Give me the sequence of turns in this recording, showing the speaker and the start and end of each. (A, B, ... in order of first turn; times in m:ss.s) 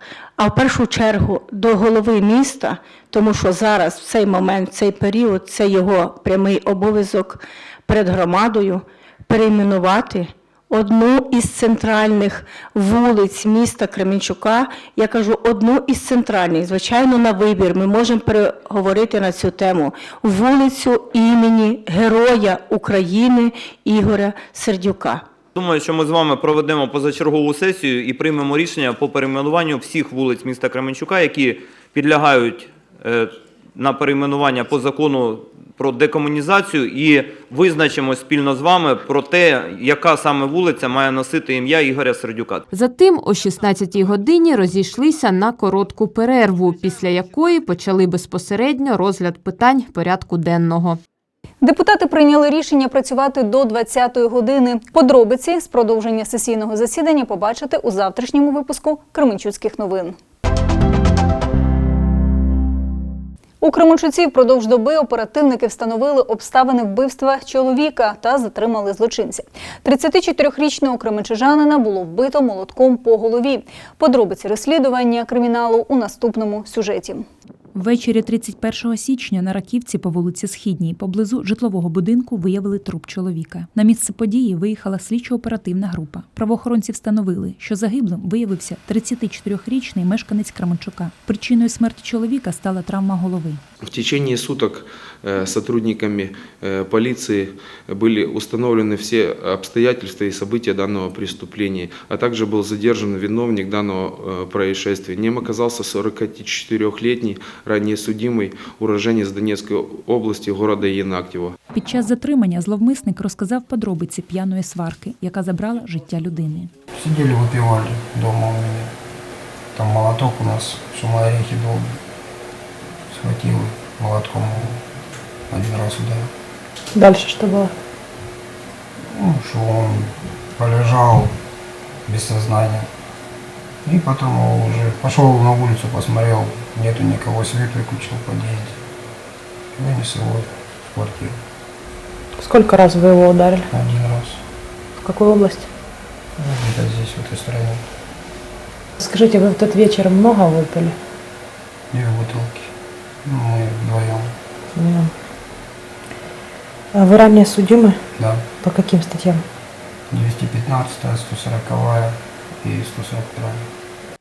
0:00.4-0:25.2 A
0:25.5-0:42.6 B
0:42.7-0:51.0 C
0:51.6-1:00.2 D
1:03.6-1:17.2 D
1:17.7-1:33.6 E
1:33.8-1:51.6 F
1:51.7-1:56.7 E
1:57.0-1:58.9 G
1:59.7-2:01.9 G
2:03.1-2:04.8 G
2:05.5-2:06.3 G
2:07.0-2:07.7 A
2:09.1-2:11.3 G
2:12.1-2:12.9 G
2:13.8-2:18.8 G
2:19.7-2:21.4 G
2:22.4-2:23.6 A
2:23.7-2:24.4 G
2:25.0-2:25.6 A
2:26.4-2:27.8 G
2:29.0-2:30.9 A
2:31.9-2:32.7 G
2:33.2-2:34.3 G
2:34.8-2:35.1 A
2:36.9-2:38.0 A
2:38.2-2:38.4 G
2:38.6-2:39.4 A
2:40.1-2:43.6 G